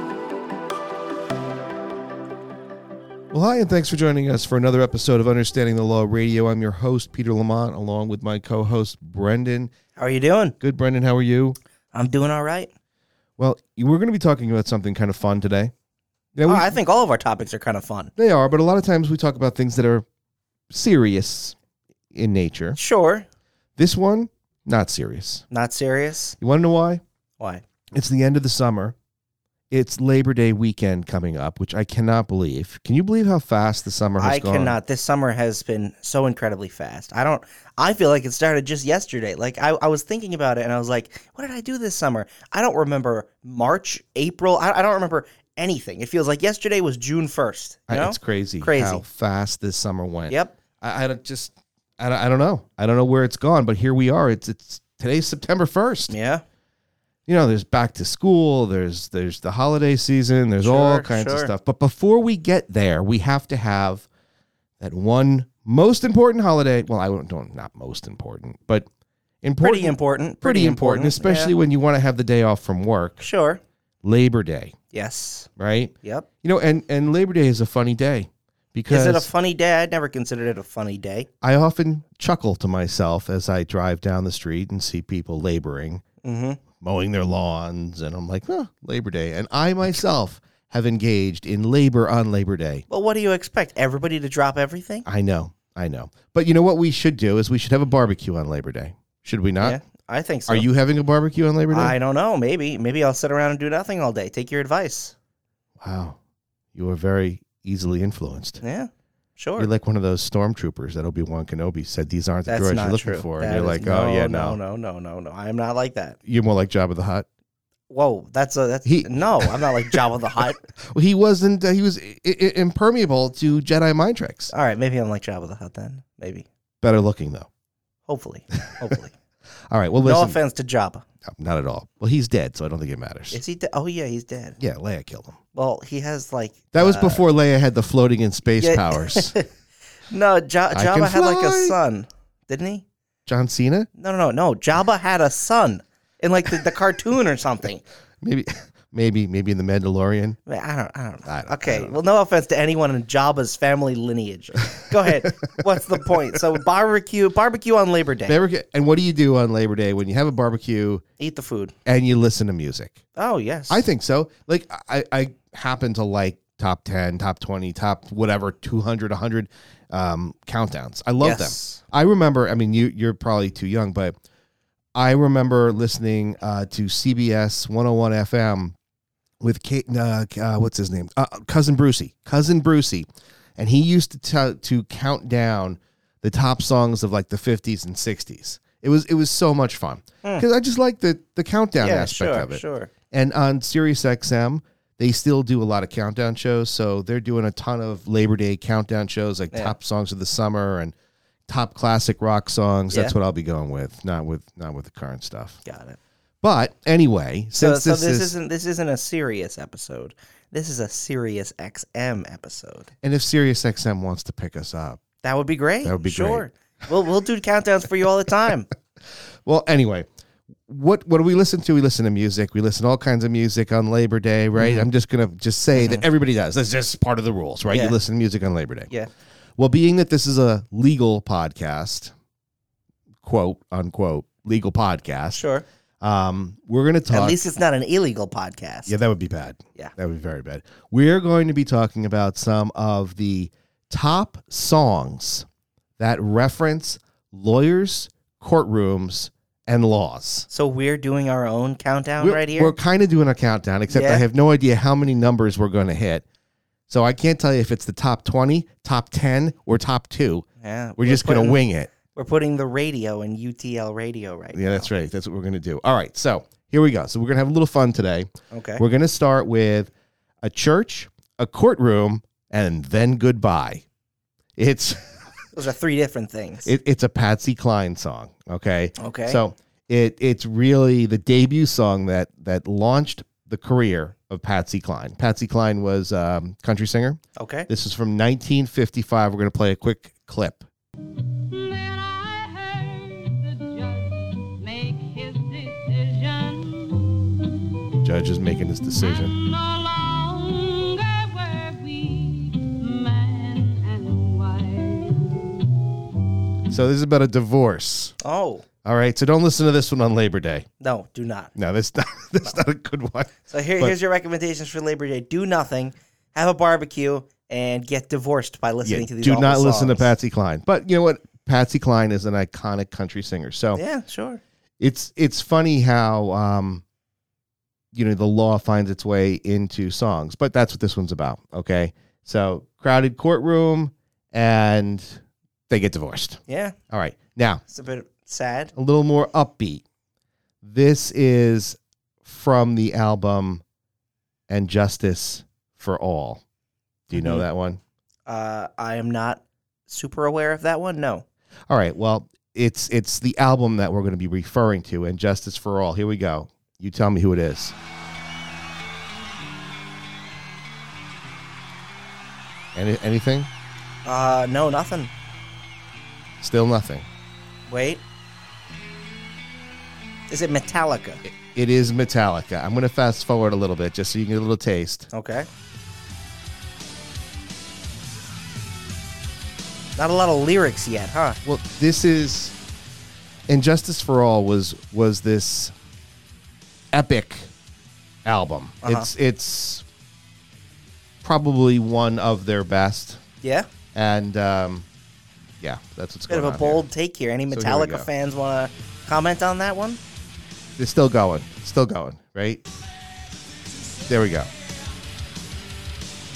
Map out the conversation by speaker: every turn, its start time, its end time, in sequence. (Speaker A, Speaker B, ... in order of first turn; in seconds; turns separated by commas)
Speaker A: 3.3-9.7, Speaker B: 9.9-10.6, Speaker A: 10.6-11.6, Speaker B: 11.9-12.7, Speaker A: 13.4-15.7, Speaker A: 16.3-16.7, Speaker B: 16.4-18.1, Speaker A: 18.2-20.0, Speaker A: 20.7-21.6, Speaker A: 22.1-22.8, Speaker B: 22.8-23.2, Speaker A: 23.8-25.4, Speaker B: 25.5-26.4, Speaker A: 26.4-27.0, Speaker A: 27.9-28.9, Speaker A: 29.7-34.8, Speaker B: 34.2-49.0, Speaker A: 47.9-56.1, Speaker B: 50.3-50.5, Speaker B: 56.1-56.4, Speaker A: 57.2-64.1, Speaker B: 60.6-61.5, Speaker A: 64.8-68.9, Speaker A: 69.4-73.3, Speaker B: 69.6-71.5, Speaker B: 73.2-73.6, Speaker A: 74.0-74.8, Speaker B: 74.9-75.5, Speaker A: 75.6-79.3, Speaker B: 78.9-81.3, Speaker A: 81.4-86.0, Speaker B: 86.2-86.6, Speaker A: 86.8-92.8, Speaker B: 92.9-95.0, Speaker A: 95.0-99.8, Speaker B: 99.6-100.7, Speaker A: 100.5-101.9, Speaker B: 101.7-105.1, Speaker A: 105.8-106.2, Speaker A: 106.7-108.6, Speaker B: 108.6-109.7, Speaker A: 109.6-114.6, Speaker B: 112.5-116.2, Speaker A: 116.2-117.2, Speaker B: 117.9-120.6, Speaker A: 118.8-120.0, Speaker A: 120.9-124.5, Speaker B: 124.5-126.5, Speaker A: 126.8-127.5, Speaker B: 128.1-129.1, Speaker A: 129.7-130.4, Speaker B: 130.0-131.0, Speaker A: 131.2-133.4, Speaker B: 133.3-134.6, Speaker A: 134.6-135.4, Speaker B: 135.5-137.2, Speaker A: 136.7-139.4, Speaker B: 138.6-139.4, Speaker B: 140.1-142.8, Speaker A: 140.7-141.8, Speaker A: 143.3-143.9, Speaker B: 143.9-147.8, Speaker A: 148.2-150.4, Speaker B: 150.5-158.3, Speaker A: 151.2-152.0, Speaker A: 158.2-161.0, Speaker B: 161.2-161.7, Speaker A: 161.8-163.0, Speaker B: 163.1-163.8, Speaker A: 163.7-174.2, Speaker B: 171.2-171.8, Speaker A: 174.9-178.7, Speaker A: 179.4-200.9, Speaker B: 191.8-192.9, Speaker A: 201.5-205.6, Speaker B: 205.6-206.0, Speaker A: 206.4-208.3, Speaker B: 207.6-212.9, Speaker A: 213.0-215.0, Speaker B: 215.2-218.7, Speaker A: 215.8-216.5, Speaker A: 219.4-220.1, Speaker A: 220.7-228.9, Speaker B: 224.6-224.9, Speaker B: 225.7-226.0, Speaker B: 227.7-227.9, Speaker A: 229.6-232.1, Speaker A: 233.2-235.4, Speaker B: 235.3-235.6, Speaker A: 236.0-237.4, Speaker B: 237.1-238.9, Speaker A: 238.9-245.4, Speaker A: 246.0-250.5, Speaker B: 250.5-252.7, Speaker A: 252.2-256.2, Speaker B: 253.9-254.2, Speaker A: 256.9-260.4, Speaker B: 260.6-264.9, Speaker A: 261.0-261.9, Speaker A: 264.5-273.8, Speaker B: 268.5-268.8, Speaker A: 274.6-275.2, Speaker B: 275.5-276.7, Speaker A: 276.6-290.6, Speaker B: 279.0-279.4, Speaker B: 287.4-287.7, Speaker C: 291.3-297.6, Speaker A: 298.0-299.3, Speaker C: 299.0-305.6, Speaker A: 306.7-308.1, Speaker B: 308.2-308.6, Speaker A: 308.8-310.6, Speaker B: 310.8-311.5, Speaker A: 311.6-313.9, Speaker B: 313.5-320.1, Speaker A: 318.8-323.8, Speaker B: 323.7-324.4, Speaker A: 324.8-326.8, Speaker A: 327.9-337.6, Speaker B: 336.5-336.8, Speaker B: 337.7-338.7, Speaker A: 338.7-339.8, Speaker A: 340.6-343.6, Speaker A: 344.5-346.4, Speaker A: 347.1-347.8, Speaker B: 347.1-347.4, Speaker B: 348.3-351.2, Speaker A: 351.7-357.7, Speaker A: 362.7-363.5, Speaker B: 364.0-365.1, Speaker A: 366.4-367.1, Speaker B: 367.7-368.0, Speaker B: 370.3-371.2, Speaker A: 371.2-375.1, Speaker B: 375.1-375.5, Speaker B: 379.9-381.4, Speaker A: 381.4-382.6, Speaker A: 383.5-385.7, Speaker A: 386.9-387.5, Speaker A: 388.2-389.8, Speaker B: 388.8-389.1, Speaker A: 391.2-393.2, Speaker B: 393.4-393.7, Speaker A: 393.9-394.9, Speaker A: 395.6-396.9, Speaker B: 396.3-400.0, Speaker A: 397.5-398.1, Speaker A: 400.8-402.6, Speaker A: 404.1-404.5